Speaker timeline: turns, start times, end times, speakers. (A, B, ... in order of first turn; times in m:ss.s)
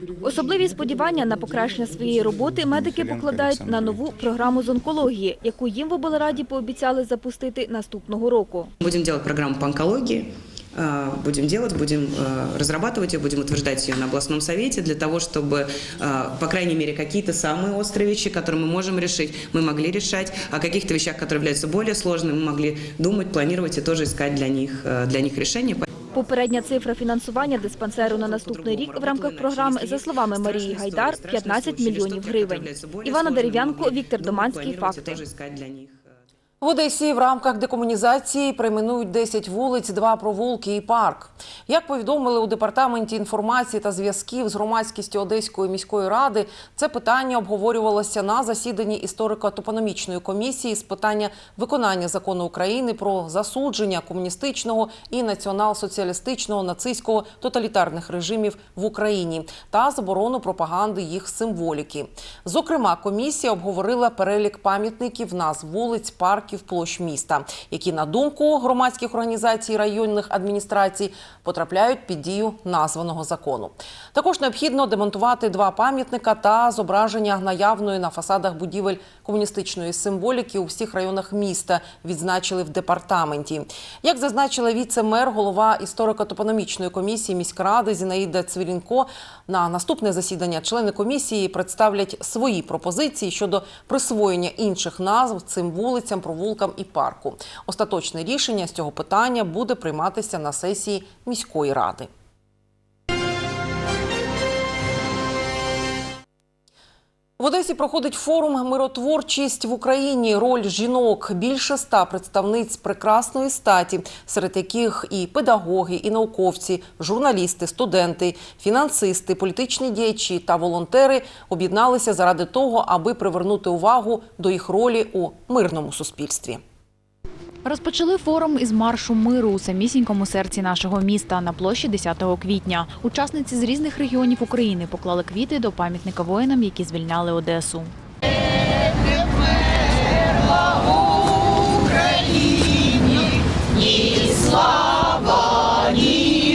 0:00.2-0:08.7 A
0:08.8-0:25.8 B
0:26.1-0:35.2 A
0:28.0-0:36.2 B
0:36.6-1:42.1 C
1:47.4-2:06.6 C
2:07.6-2:17.9 D